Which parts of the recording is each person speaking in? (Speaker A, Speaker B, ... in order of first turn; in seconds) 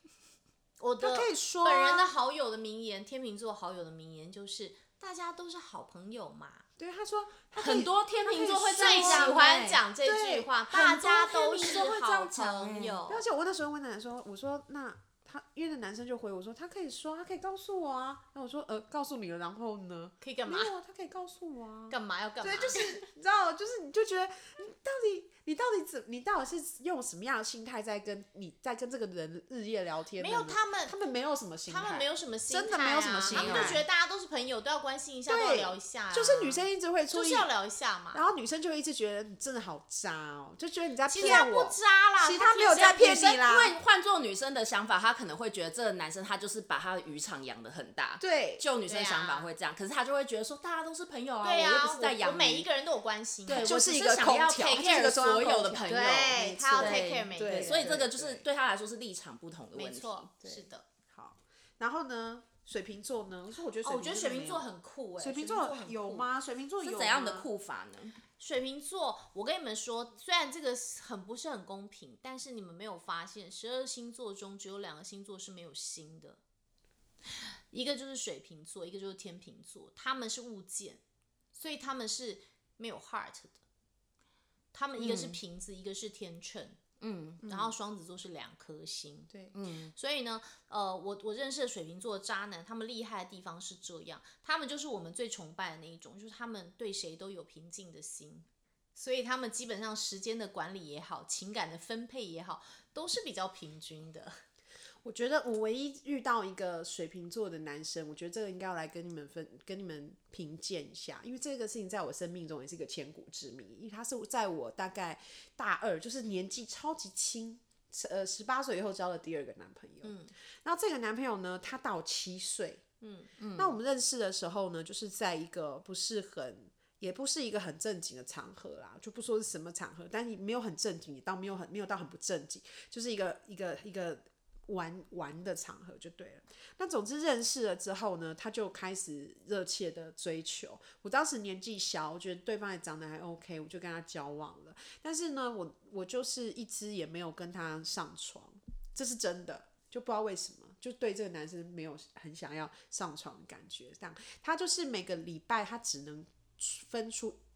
Speaker A: 0.8-6.6, 8.8-13.2, 20.2-20.7, 21.9-23.0, 30.2-30.9, 31.7-38.2, 41.1-43.0, 48.9-49.5, 51.4-53.7, 55.9-57.9, 59.7-60.8, 63.8-66.3, 68.4-76.4, 77.3-81.0, 81.5-83.6, 84.7-86.8, 87.4-89.3, 89.9-104.4, 120.0-120.3, 123.0-123.3
Speaker B: 1.0-2.1, 6.8-9.4, 10.0-33.8, 35.3-37.5, 38.1-43.8, 48.2-48.6, 53.5-58.5, 60.4-67.5, 87.4-87.7, 89.3-89.5, 105.0-122.8, 123.5-157.4
Speaker C: 7.6-9.8, 33.3-33.8, 42.7-52.7, 53.5-60.3, 66.8-68.1, 85.0-85.4, 87.0-87.4, 89.5-89.9, 123.4-123.7